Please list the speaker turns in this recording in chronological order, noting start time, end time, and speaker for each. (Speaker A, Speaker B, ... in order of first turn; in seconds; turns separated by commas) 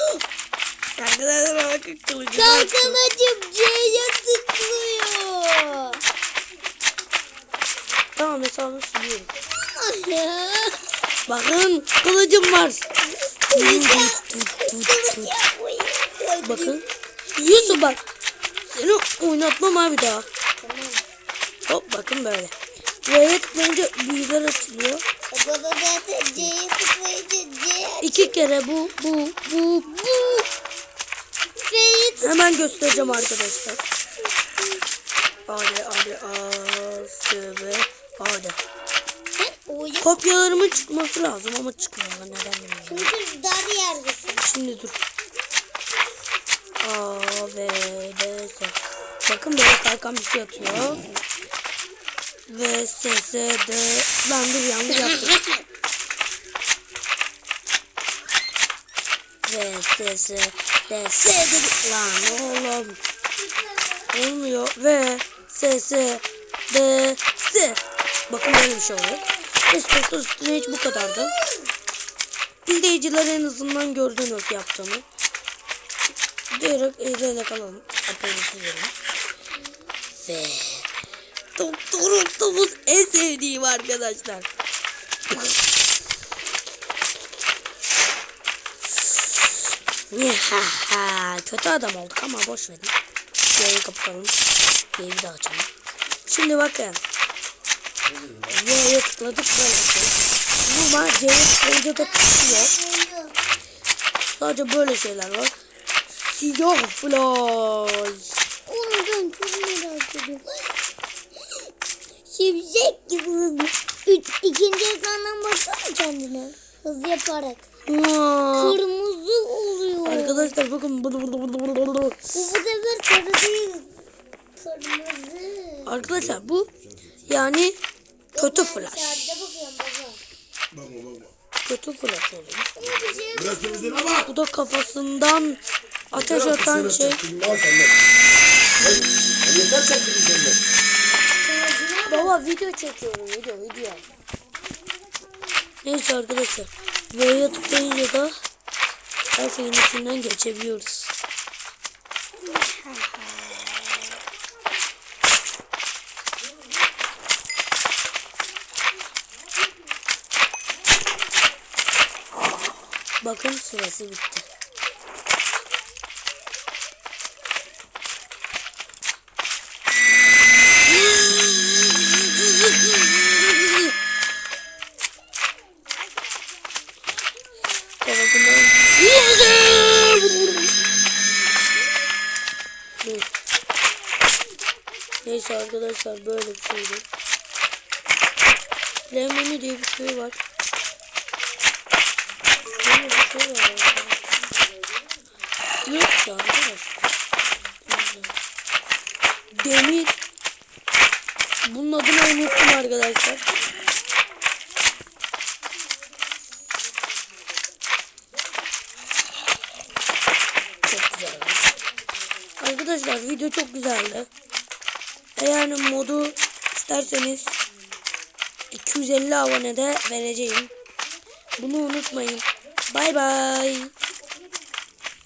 Speaker A: 1.0-3.0, Speaker B: 2.4-6.0, Speaker A: 8.2-9.3, Speaker B: 9.5-10.9, Speaker A: 11.3-12.9, Speaker B: 13.0-16.8, Speaker A: 13.5-15.3, Speaker A: 16.4-16.8, Speaker A: 17.4-18.0, Speaker B: 17.4-17.8, Speaker A: 18.7-20.3, Speaker B: 20.6-21.0, Speaker A: 21.7-22.5, Speaker A: 23.1-25.0, Speaker B: 25.3-28.3, Speaker A: 28.0-30.0, Speaker B: 29.9-30.5, Speaker B: 31.6-33.3, Speaker A: 32.2-33.8, Speaker B: 34.4-34.8, Speaker A: 35.5-38.6, Speaker B: 39.4-40.2, Speaker A: 40.0-43.1, Speaker B: 42.9-44.5, Speaker A: 44.4-45.0, Speaker A: 46.8-51.1, Speaker A: 52.5-55.4, Speaker A: 59.5-63.0, Speaker B: 63.4-64.1, Speaker A: 64.1-71.4, Speaker B: 70.8-71.7, Speaker A: 72.7-75.0, Speaker A: 76.5-78.9, Speaker A: 80.2-80.9, Speaker A: 81.6-84.5, Speaker A: 90.1-93.0, Speaker A: 93.5-94.3, Speaker A: 95.0-95.7, Speaker A: 96.3-97.0, Speaker A: 98.5-100.2, Speaker A: 100.7-102.7, Speaker B: 102.0-103.4, Speaker A: 104.3-105.5, Speaker A: 106.2-108.2, Speaker B: 108.7-110.8, Speaker B: 111.4-111.7, Speaker B: 112.3-117.6, Speaker A: 117.9-118.8, Speaker B: 118.6-120.5, Speaker A: 120.1-122.2, Speaker B: 122.3-123.9, Speaker B: 124.6-125.9, Speaker A: 125.9-126.7, Speaker A: 127.3-127.8, Speaker B: 128.3-130.2, Speaker A: 128.4-129.1, Speaker C: 130.8-131.2, Speaker A: 131.7-132.7, Speaker B: 132.8-134.3, Speaker A: 134.2-135.6, Speaker A: 136.1-137.3, Speaker C: 137.0-137.9, Speaker C: 139.4-140.6, Speaker B: 141.4-142.3, Speaker A: 142.1-144.0, Speaker A: 145.8-148.3, Speaker A: 149.3-151.1, Speaker B: 152.4-154.1, Speaker A: 163.2-164.5, Speaker A: 170.9-173.9, Speaker A: 178.0-180.7, Speaker A: 183.0-183.3, Speaker A: 185.2-187.1, Speaker A: 189.1-190.4, Speaker A: 192.7-194.2, Speaker A: 195.8-197.1, Speaker A: 197.9-198.3, Speaker A: 199.6-200.1, Speaker A: 201.7-203.4, Speaker A: 210.9-211.7, Speaker A: 212.6-214.3, Speaker A: 215.4-217.6, Speaker A: 218.7-220.7, Speaker A: 221.6-223.9